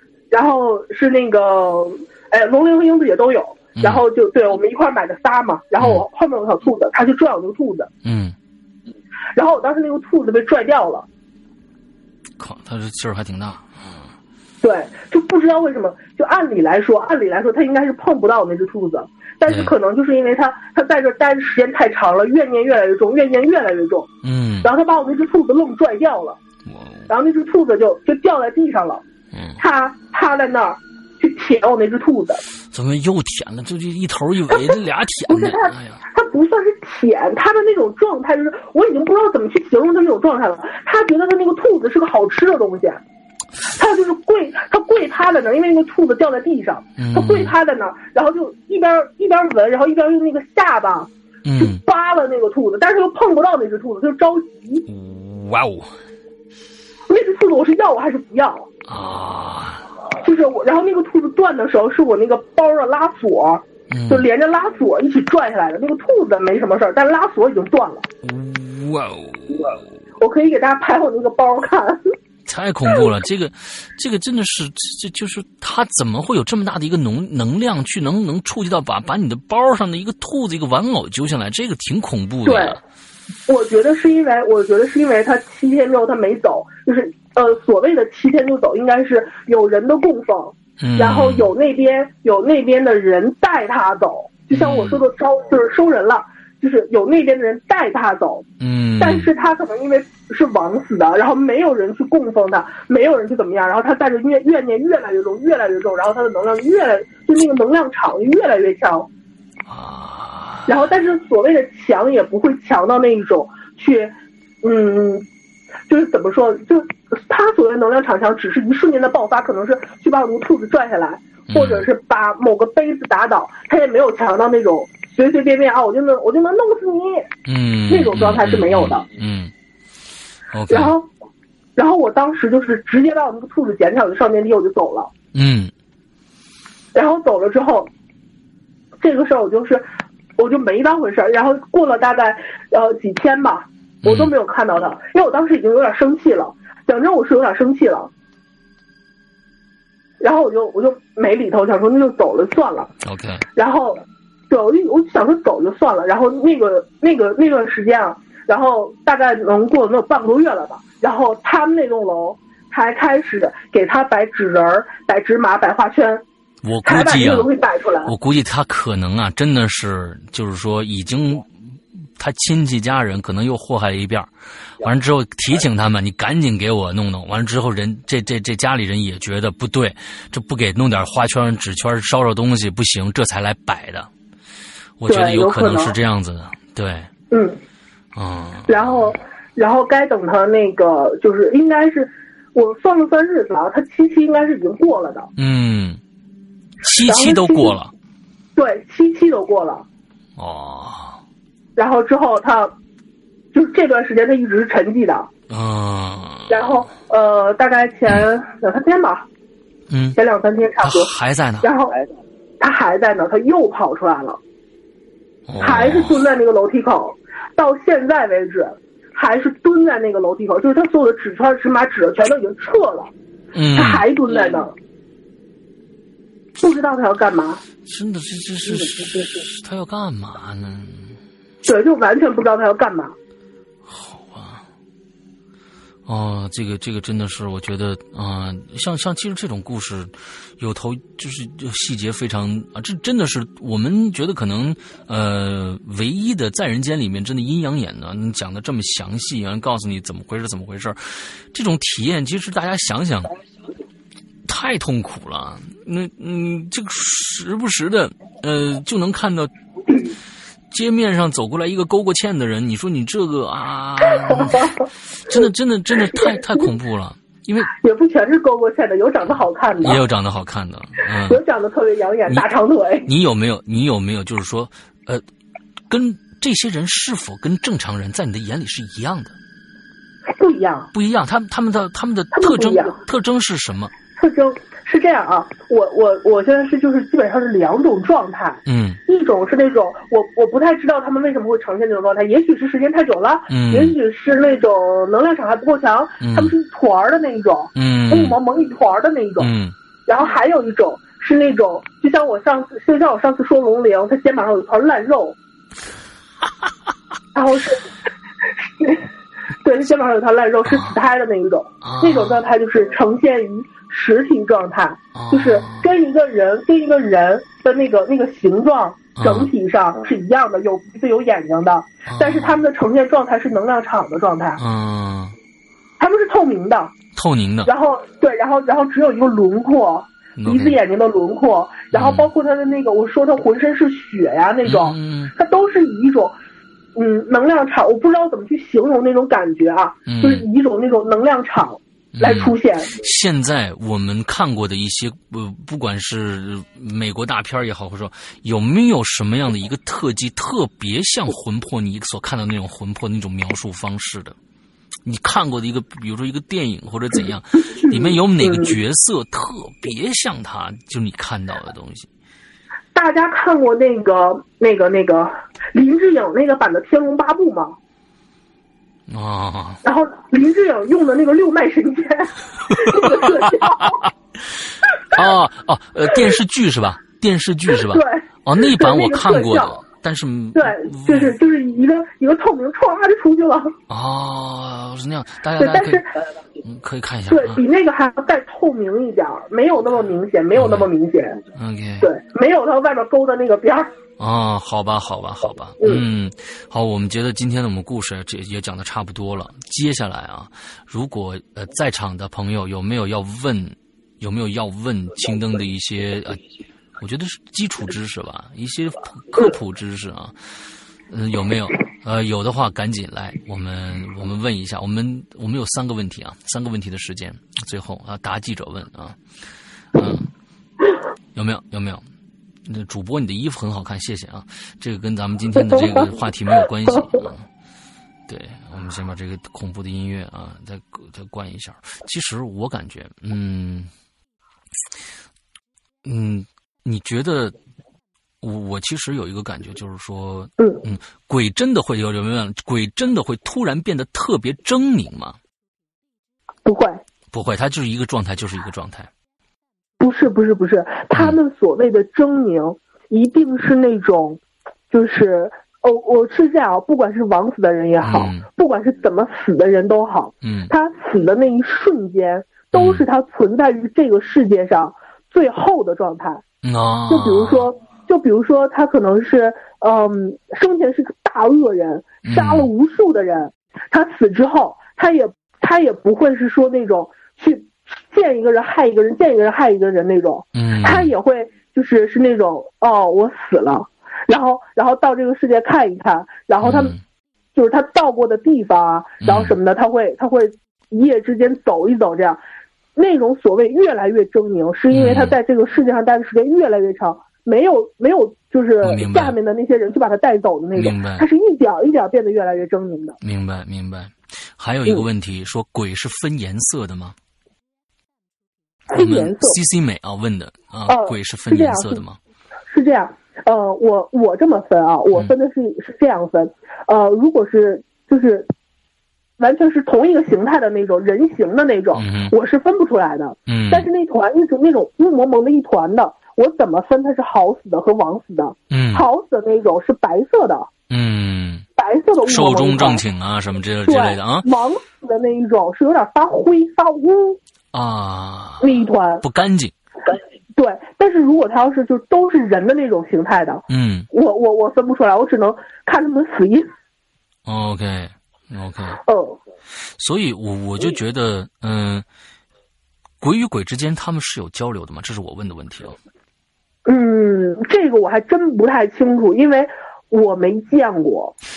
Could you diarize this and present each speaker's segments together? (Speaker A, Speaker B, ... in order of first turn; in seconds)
Speaker A: 0.3-7.9, 9.3-11.1, 14.6-24.1, 24.6-26.4, 27.1-29.0, 29.6-32.4, 34.5-34.8, 35.3-43.0, 43.7-54.9, 57.1-58.7, 60.2-68.1, 70.2-72.1, 82.4-82.8, 83.5-98.5, 99.0-109.1, 110.7-115.3, 115.9-127.3, 127.9-129.1, 130.7-131.1, 131.8-135.1, 136.9-137.9, 139.0-139.8, 140.4-148.1, 150.2-152.9, 153.6-166.2, 166.8-168.1, 185.1-185.9, 187.3-187.6, 188.7-195.3, 197.1-197.8, 198.6-199.8, 201.8-202.7, 203.5-205.3, 206.5-209.2, 210.1-212.0, 212.6-214.4, 215.6-223.1, 223.7-224.7, 226.6-227.6, 228.7-229.4, 231.6-233.1, 264.1-264.9, 266.1-266.7, 267.7-270.0, 271.1-273.1, 280.3-280.9, 282.3-283.0, 284.1-299.5, 300.1-305.4, 307.3-307.9, 308.6-309.1, 309.6-324.6, 326.0-326.9, 327.6-336.3, 336.9-342.9, 357.8-358.8, 362.9-367.8, 369.8-374.1, 377.7-379.8, 380.5-383.7, 385.6-386.1, 387.3-391.4, 392.0-393.9, 440.6-440.8, 446.6-447.0, 450.0-466.4, 467.1-486.9, 487.5-492.4, 492.9-503.2, 508.9-509.6, 510.9-512.0, 512.7-518.5, 519.4-530.7, 531.8-533.0, 533.8-537.4, 538.6-539.2, 540.6-546.7, 549.0-549.4, 556.9-561.4
Speaker B: 3.8-4.0, 5.8-6.0, 8.0-8.3, 12.4-14.1, 19.5-19.7, 24.2-24.7, 26.6-27.1, 29.3-29.6, 32.7-36.0, 47.0-47.5, 51.4-51.8, 54.9-55.9, 58.9-59.9, 63.9-64.2, 68.2-69.8, 72.5-82.8, 90.8-91.5, 94.5-95.0, 98.6-99.3, 109.7-110.9, 121.5-121.9, 127.5-129.5, 130.5-130.9, 135.3-135.7, 144.0-144.3, 153.0-153.4, 166.6-167.5, 168.0-184.1, 185.0-187.1, 188.1-189.2, 195.3-196.0, 196.8-197.9, 200.4-201.2, 205.5-206.8, 209.9-210.2, 210.8-211.7, 215.5-216.2, 223.5-224.1, 227.8-231.2, 233.8-234.6, 236.1-253.3, 254.4-260.0, 260.7-267.7, 269.8-271.4, 273.1-275.2, 275.9-279.3, 280.9-283.9, 288.6-289.0, 293.5-293.9, 296.2-296.5, 297.7-298.4, 299.4-299.7, 310.6-310.9, 311.8-312.4, 315.1-315.9, 319.1-319.5, 322.1-322.6, 324.6-325.3, 327.1-327.7, 330.4-330.8, 331.9-332.3, 334.6-335.3, 340.1-340.4, 342.1-354.4, 355.0-362.1, 369.1-369.8, 372.7-374.1, 375.1-381.4, 383.9-386.0, 386.6-387.6, 390.5-390.9, 391.5-392.1, 394.2-406.4, 407.0-410.4, 411.1-419.2, 419.9-420.3, 421.3-422.0, 422.6-427.4, 428.3-433.9, 436.0-437.5, 438.4-445.4, 447.3-449.1, 451.1-451.4, 458.0-458.4, 460.4-460.7, 462.7-463.1, 466.6-467.7, 472.2-472.7, 480.5-481.1, 486.6-487.0, 489.2-489.5, 494.9-495.4, 498.8-499.4, 500.8-501.2, 503.2-507.1, 508.9-512.2, 521.9-522.3, 523.5-523.9, 528.7-529.1, 530.9-531.6, 532.2-534.5, 537.7-539.7, 543.7-544.1, 547.4-549.0, 549.8-552.0, 553.2-556.0